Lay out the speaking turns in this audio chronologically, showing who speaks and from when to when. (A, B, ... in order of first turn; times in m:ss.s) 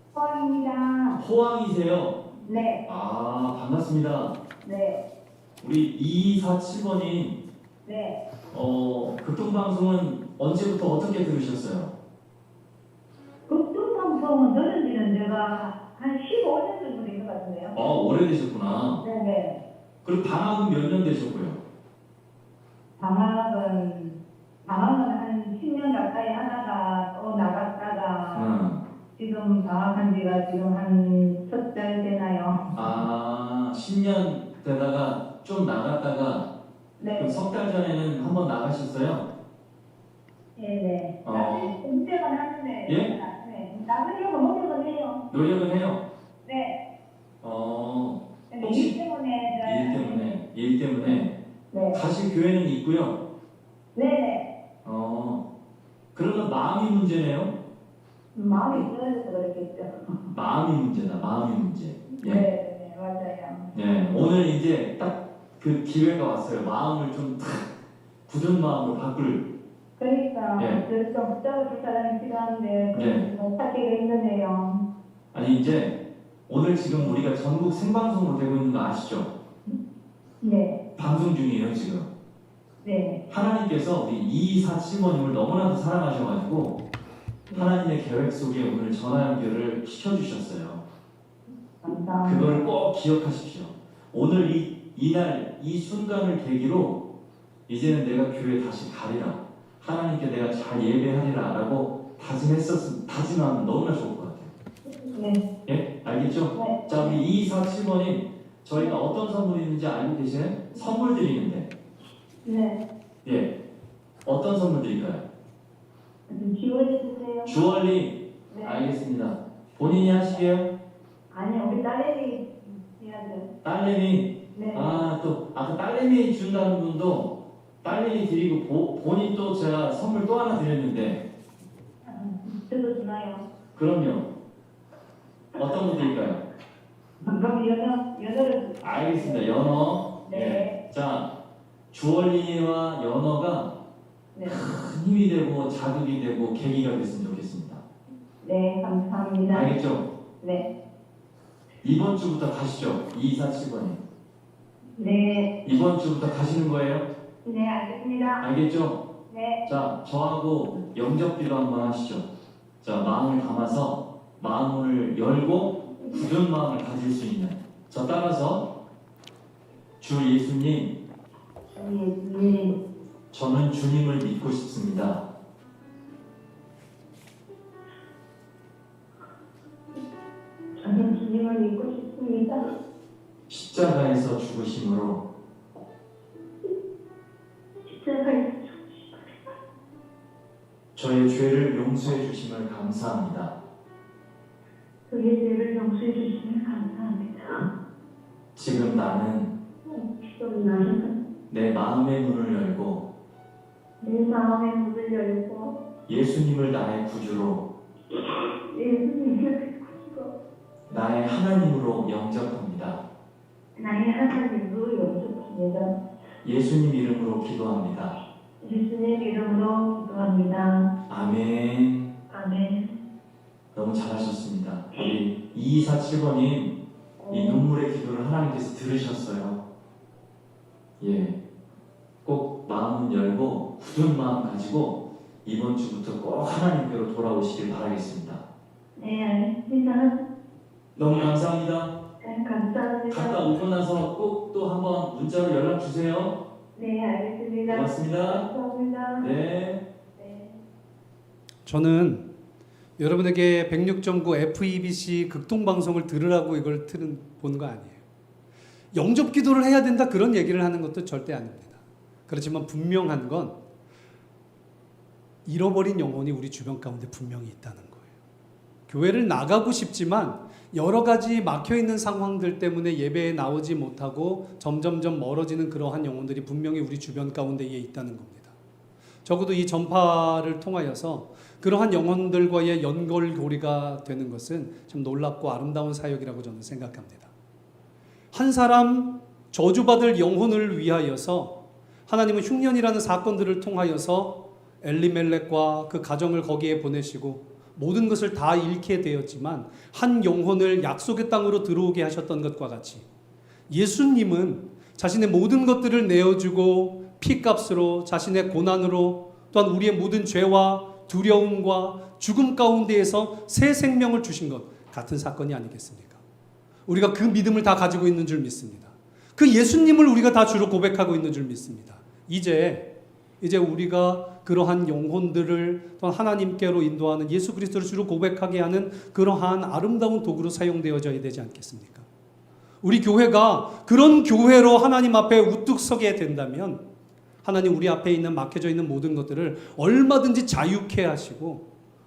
0:00.1-0:01.2 A
0:01.2-0:02.2 B
0:02.4-0:02.8 A
0:02.8-0:04.3 B
0:04.6-0:05.0 A
0:05.6-0:07.4 B
0:07.8-0:08.2 A
0:08.5-0:11.9 B
0:13.5-0:17.8 A
0:17.7-0:19.0 B
0:19.0-0:19.6 A
0:20.0-0:21.6 B
0:23.0-0:28.5 A
0:28.3-0:28.8 B
0:29.2-0:32.7 A
0:32.7-0:36.4 B
0:37.0-0:37.4 A
0:37.2-0:39.3 B
0:40.6-0:45.2 A
0:41.2-0:41.7 B
0:45.3-0:46.0 B
0:46.4-0:46.8 A
0:47.4-0:48.9 B
0:48.5-0:50.4 A
0:49.6-0:51.3 B
0:51.7-0:52.0 A
0:51.9-0:53.2 B
0:53.9-0:54.5 A
0:54.8-0:55.4 B
0:56.1-0:57.5 B
0:58.3-1:00.3 A
1:00.3-1:02.4 B
1:02.1-1:03.7 A
1:03.7-1:07.6 B
1:08.3-1:09.4 B
1:10.0-1:14.8 A
1:10.6-1:10.8 B
1:12.9-1:13.2 B
1:15.3-1:16.0 B
1:16.5-1:19.3 B
1:20.4-1:20.8 A
1:21.0-1:22.1 B
1:22.8-1:23.3 A
1:23.3-1:26.8 B
1:27.5-1:30.8 B
1:31.8-1:32.7 A
1:32.2-1:37.0 B
1:37.7-1:44.5 B
1:45.0-1:45.4 A
1:45.6-1:51.7 B
1:46.5-1:47.2 A
1:52.4-1:52.8 A
1:53.2-1:53.5 B
1:54.2-1:55.2 B
1:56.3-1:57.6 A
1:57.4-2:00.7 B
1:58.5-1:58.9 A
2:01.3-2:03.5 A
2:03.6-2:11.2 B
2:04.5-2:04.9 A
2:12.0-2:13.4 A
2:13.7-2:14.3 B
2:15.5-2:16.4 B
2:15.6-2:16.1 A
2:17.2-2:19.6 A
2:18.8-2:21.3 B
2:20.2-2:20.8 A
2:21.9-2:23.7 B
2:24.3-2:24.6 A
2:24.5-2:27.8 B
2:28.4-2:29.7 A
2:29.5-2:30.0 B
2:30.4-2:30.7 A
2:31.8-2:34.0 B
2:35.0-2:35.5 A
2:35.6-2:37.1 B
2:37.4-2:38.4 A
2:38.4-2:39.0 B
2:39.3-2:39.6 A
2:39.6-2:42.3 B
2:42.8-2:48.7 B
2:50.0-2:50.9 B
2:51.7-2:52.8 A
2:53.3-2:55.2 B
3:00.8-3:02.6 A
3:03.5-3:05.2 B
3:07.8-3:09.4 A
3:10.9-3:13.5 B
3:15.1-3:17.7 A
3:18.5-3:19.5 B
3:19.8-3:21.1 A
3:21.5-3:23.0 B
3:24.0-3:25.8 A
3:26.1-3:27.6 B
3:28.1-3:30.3 A
3:30.9-3:33.0 B
3:33.8-3:36.0 A
3:36.4-3:38.1 B
3:38.6-3:40.9 A
3:41.1-3:42.1 B
3:42.3-3:42.9 A
3:43.7-3:46.7 B
3:47.2-3:47.6 A
3:47.3-3:49.6 B
3:51.0-3:51.4 B
3:52.2-3:58.4 B
3:59.0-4:00.2 A
4:01.0-4:01.9 B
4:02.2-4:03.6 A
4:03.1-4:06.4 B
4:06.7-4:09.3 A
4:07.7-4:08.5 B
4:09.2-4:09.8 B
4:10.2-4:10.6 A
4:11.6-4:12.3 C
4:13.0-4:18.0 C
4:18.9-4:23.6 C
4:25.4-4:28.0 C
4:28.9-4:38.5 C
4:39.2-4:47.3 C
4:48.3-5:03.0 C
5:03.7-5:16.2 C
5:16.9-5:32.0 C
5:32.8-5:36.8 C
5:37.4-5:41.6 C